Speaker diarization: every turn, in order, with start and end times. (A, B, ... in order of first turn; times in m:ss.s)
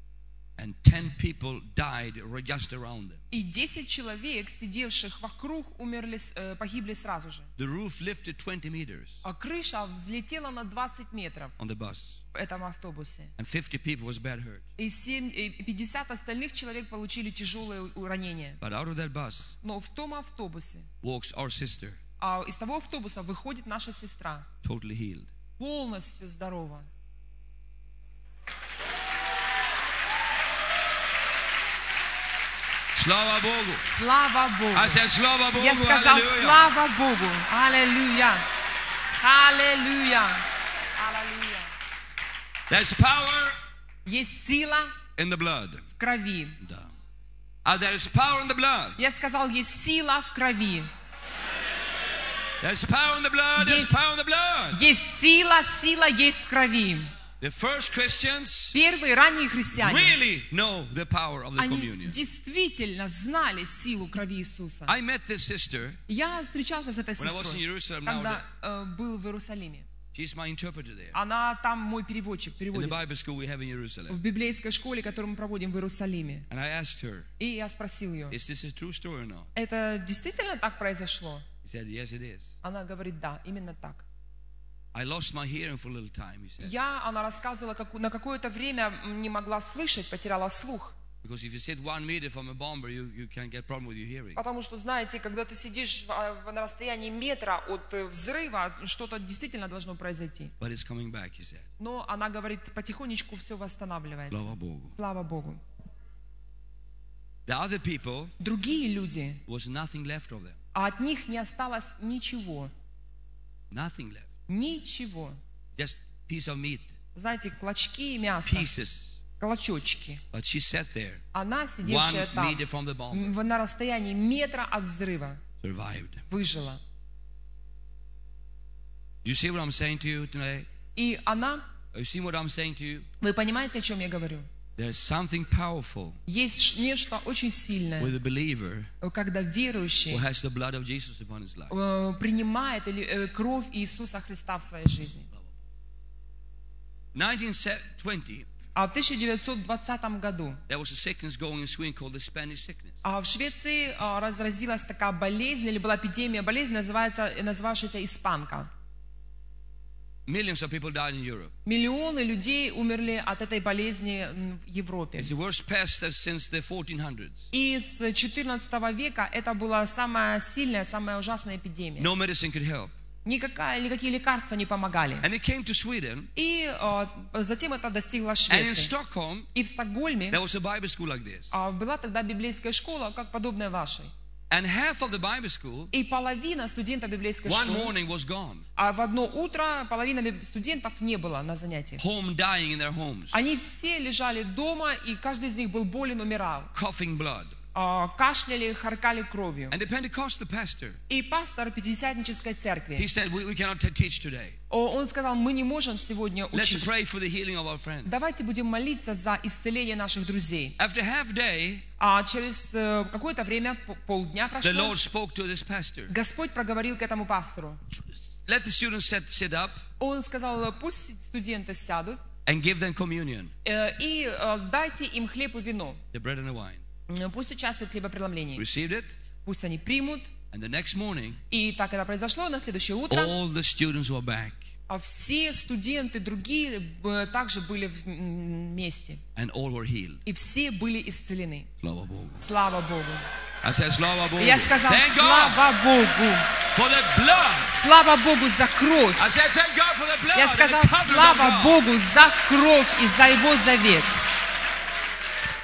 0:00.6-0:03.2 A
0:03.3-0:07.5 B
0:07.6-0:09.2 A
0:09.2-0:11.6 B
0:11.6-0:12.2 A
0:12.3-0:13.3 B
0:13.4-0:14.6 A
0:14.8-0:18.6 B
0:18.6-0:19.5 A
0:19.6-0:20.9 B
0:21.0-0:22.0 A
0:22.2-0:24.5 B
0:24.6-0:25.3 A
0:25.6-0:26.9 B
0:32.9-0:33.8 A
0:33.8-0:38.4 B
0:34.7-0:36.6 A
0:39.1-0:41.7 B
0:42.7-0:43.6 A
0:44.0-0:45.0 B
0:45.2-0:45.8 A
0:46.0-0:46.6 B
0:46.6-0:46.9 A
0:47.6-0:49.0 A
0:49.0-0:50.9 B
0:52.6-0:54.8 A
0:53.6-0:54.0 B
0:54.7-0:57.1 B
0:57.4-0:58.8 A
0:58.7-1:00.2 B
0:59.7-1:02.2 A
1:01.6-1:05.0 B
1:04.9-1:06.0 A
1:06.1-1:09.9 B
1:07.2-1:08.4 A
1:10.1-1:11.2 A
1:11.1-1:13.0 B
1:12.7-1:14.2 A
1:14.1-1:16.5 B
1:16.5-1:17.3 A
1:17.4-1:18.4 B
1:18.3-1:19.5 A
1:19.5-1:21.4 B
1:21.6-1:22.5 A
1:22.6-1:24.0 B
1:24.9-1:26.7 A
1:26.6-1:31.0 B
1:31.2-1:34.4 A
1:34.4-1:40.5 B
1:40.6-1:41.7 A
1:41.8-1:45.6 B
1:44.3-1:45.0 A
1:47.4-1:48.3 A
1:48.4-1:49.4 B
1:49.5-1:50.6 A
1:50.7-1:52.7 B
1:53.7-1:54.3 A
1:54.5-1:55.4 B
1:55.8-1:56.9 A
1:57.1-1:58.7 B
1:58.4-1:59.2 A
1:59.4-2:00.2 B
2:00.3-2:01.2 A
2:01.3-2:05.4 B
2:01.8-2:03.4 A
2:05.6-2:06.2 A
2:06.3-2:06.8 B
2:09.2-2:10.7 A
2:11.0-2:11.6 B
2:11.9-2:13.1 A
2:13.2-2:14.5 B
2:14.8-2:16.2 A
2:16.3-2:18.1 B
2:18.0-2:18.9 A
2:19.0-2:20.2 B
2:20.1-2:21.7 A
2:21.7-2:25.3 B
2:27.1-2:28.5 A
2:28.7-2:30.6 B
2:30.7-2:33.0 A
2:33.0-2:38.7 B
2:40.3-2:41.5 A
2:41.6-2:45.3 B
2:45.2-2:47.4 A
2:47.5-2:52.1 B
2:52.0-2:52.9 A
2:53.2-2:55.2 B
2:55.2-2:56.3 A
2:56.3-2:58.9 B
2:58.5-2:59.5 A
2:59.5-3:00.4 B
3:00.3-3:01.5 A
3:01.5-3:04.1 B
3:04.5-3:05.9 A
3:05.9-3:07.9 B
3:07.4-3:08.6 A
3:08.8-3:12.0 B
3:12.0-3:13.5 A
3:13.3-3:16.7 B
3:16.7-3:17.6 A
3:17.7-3:19.8 B
3:19.7-3:21.0 A
3:21.1-3:23.1 B
3:23.0-3:24.6 A
3:24.7-3:26.9 B
3:26.5-3:28.2 A
3:28.0-3:30.8 B
3:30.8-3:31.8 A
3:32.0-3:35.0 B
3:34.6-3:36.1 A
3:36.1-3:37.8 B
3:37.9-3:39.8 A
3:40.0-3:42.2 B
3:42.4-3:43.5 A
3:43.6-3:46.0 B
3:46.1-3:46.8 A
3:47.1-3:48.6 B
3:48.6-3:49.2 A
3:49.4-3:50.3 B
3:50.5-3:51.4 A
3:51.5-3:53.4 B
3:53.1-3:54.7 A
3:54.9-3:59.2 B
3:59.4-4:00.2 A
4:00.2-4:01.7 B
4:01.8-4:02.4 A
4:02.4-4:03.3 B
4:03.6-4:05.6 A
4:04.4-4:06.5 B
4:06.7-4:07.7 A
4:07.7-4:09.3 B
4:09.2-4:11.8 A
4:10.3-4:14.1 B